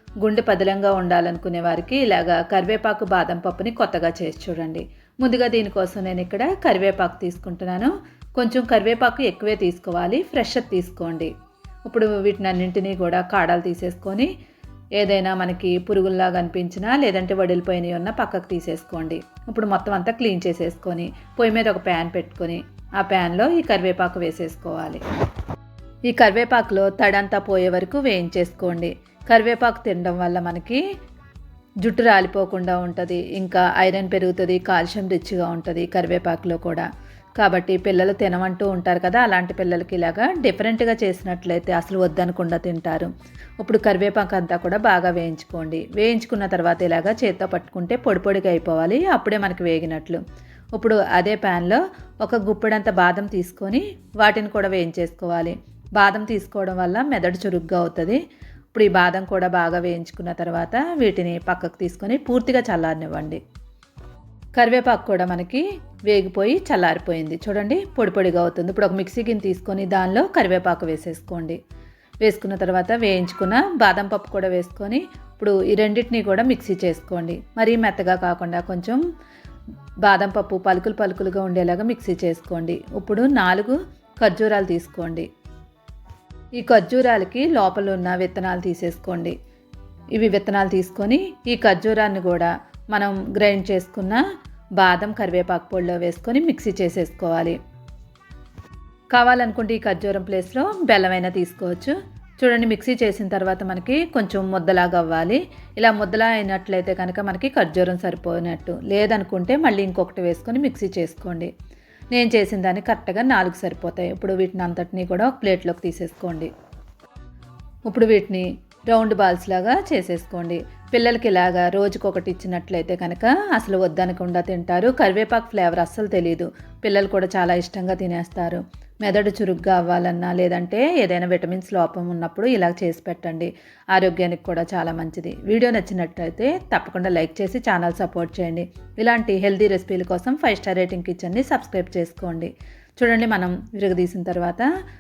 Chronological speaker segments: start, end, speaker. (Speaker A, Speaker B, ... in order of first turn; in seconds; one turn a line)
Speaker A: 0.2-11.3
Speaker A: 11.8-14.3
Speaker A: 15.0-25.0
Speaker A: 26.1-30.8
Speaker A: 31.8-36.9
Speaker A: 37.4-50.2
Speaker A: 50.8-58.2
Speaker A: 58.7-63.4
Speaker A: 64.5-71.6
Speaker A: 72.2-79.0
Speaker A: 80.0-85.3
Speaker A: 86.6-89.3
Speaker A: 90.2-94.2
Speaker A: 94.8-97.6
Speaker A: 99.1-111.5
Speaker A: 112.1-116.5
Speaker A: 117.9-144.7